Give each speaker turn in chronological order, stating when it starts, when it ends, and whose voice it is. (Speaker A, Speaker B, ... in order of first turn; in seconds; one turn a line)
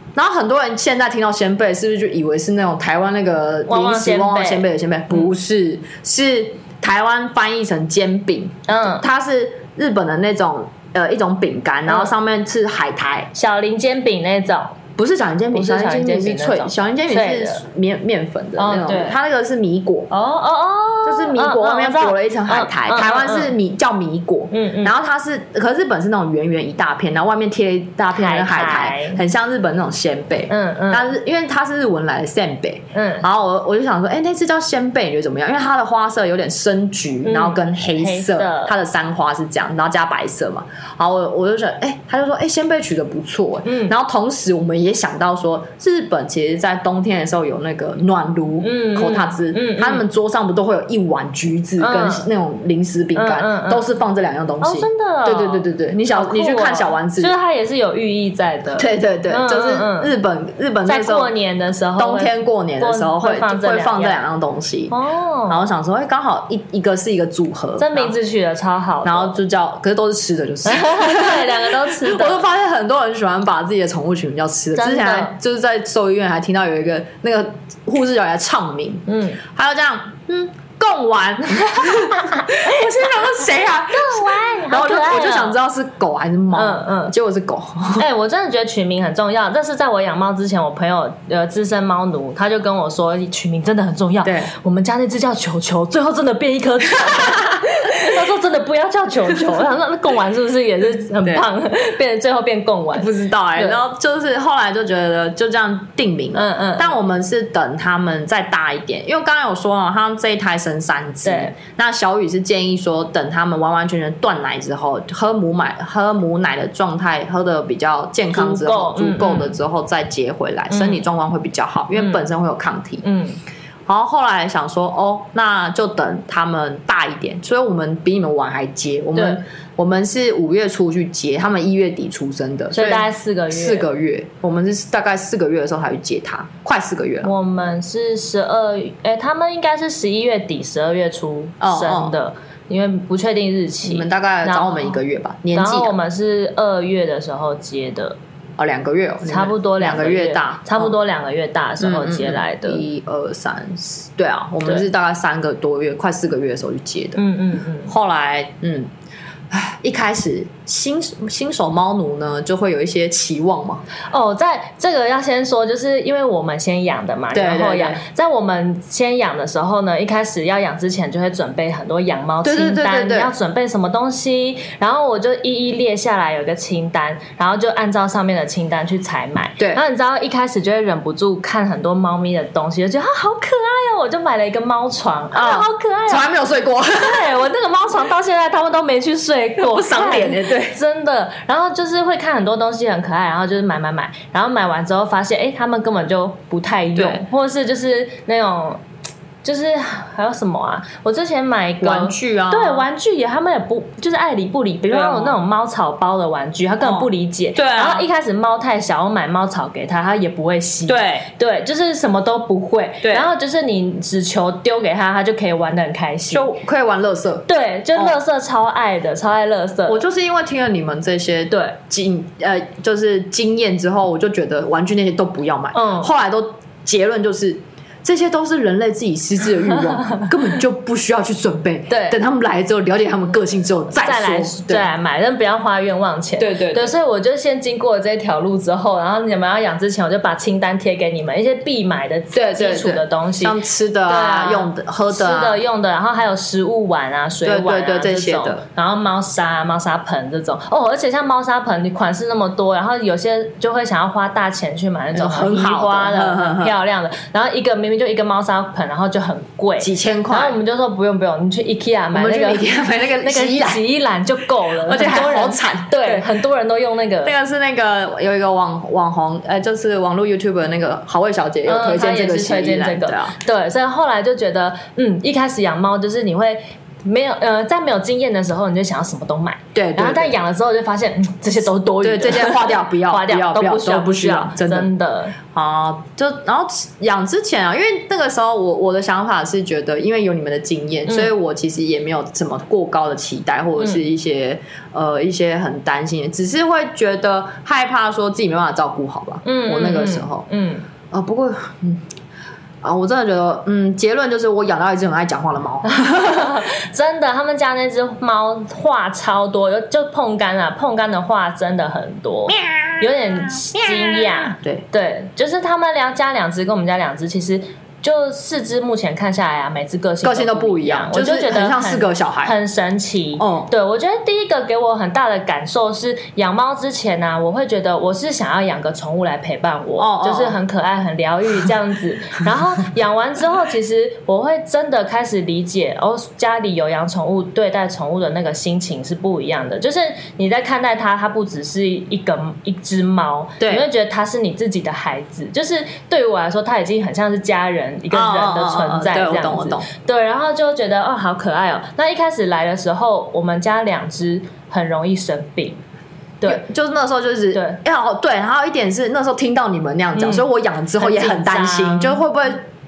Speaker A: 0.1-13.3
Speaker B: 3.7-5.3
Speaker B: 8.7-9.0
Speaker B: 13.3-14.8
Speaker A: 15.0-20.1
Speaker B: 15.5-17.6
Speaker B: 18.6-19.2
Speaker B: 20.1-23.5
Speaker A: 21.1-57.3
Speaker B: 24.5-24.9
Speaker B: 28.1-29.2
Speaker B: 30.5-31.1
Speaker B: 32.9-33.2
Speaker B: 37.2-38.7
Speaker B: 43.6-43.9
Speaker B: 48.6-50.0
Speaker B: 51.8-52.3
Speaker B: 53.1-53.9
Speaker B: 54.6-60.1
Speaker A: 58.8-61.3
Speaker B: 60.9-64.2
Speaker A: 62.0-64.9
Speaker B: 64.9-65.6
Speaker A: 65.5-68.2
Speaker B: 67.8-69.3
Speaker A: 69.0-88.1
Speaker B: 70.7-72.5
Speaker B: 74.8-75.3
Speaker B: 79.1-79.4
Speaker B: 81.8-82.8
Speaker B: 83.9-85.6
Speaker B: 86.5-87.2
Speaker B: 88.0-103.8
Speaker A: 94.2-94.5
Speaker A: 103.0-123.0
Speaker B: 106.3-107.0
Speaker B: 111.2-111.5
Speaker B: 118.3-119.5
Speaker B: 120.7-121.0
Speaker B: 122.0-122.2
Speaker B: 123.0-123.4
Speaker A: 123.9-137.3
Speaker B: 132.7-133.9
Speaker B: 137.2-144.9
Speaker A: 141.6-142.2
Speaker A: 143.8-145.9
Speaker B: 145.5-148.2
Speaker A: 148.6-150.9
Speaker B: 149.2-152.8
Speaker A: 151.8-157.2
Speaker B: 157.2-157.9
Speaker A: 157.9-158.9
Speaker A: 159.5-163.8
Speaker B: 164.1-186.3
Speaker A: 167.3-168.0
Speaker A: 172.4-173.3
Speaker A: 185.3-187.3
Speaker B: 186.9-198.8
Speaker A: 189.6-190.8
Speaker A: 197.0-197.2
Speaker B: 199.4-216.5
Speaker A: 201.8-202.9
Speaker A: 204.9-205.4
Speaker A: 206.8-208.1
Speaker A: 210.9-211.3
Speaker A: 213.0-213.3
Speaker A: 216.3-218.2
Speaker B: 217.5-220.0
Speaker A: 219.9-234.9
Speaker B: 225.7-226.1
Speaker B: 231.9-232.2
Speaker B: 234.0-262.7
Speaker A: 236.4-236.9
Speaker A: 242.3-245.6
Speaker A: 247.4-248.6
Speaker A: 255.2-256.8
Speaker A: 259.8-260.6
Speaker A: 262.1-263.8
Speaker B: 263.2-267.3
Speaker A: 264.9-266.4
Speaker A: 267.2-273.4
Speaker B: 271.7-285.4
Speaker A: 279.7-280.4
Speaker A: 282.0-284.9
Speaker A: 285.5-300.5
Speaker B: 291.1-291.3
Speaker B: 299.4-300.9
Speaker A: 301.1-302.1
Speaker A: 302.8-306.6
Speaker B: 305.9-355.8
Speaker A: 312.6-314.9
Speaker A: 320.2-322.5
Speaker A: 323.4-323.7
Speaker A: 330.0-330.6
Speaker A: 343.6-343.9
Speaker A: 348.1-349.9
Speaker A: 356.4-362.6
Speaker B: 357.5-357.8
Speaker B: 360.1-362.2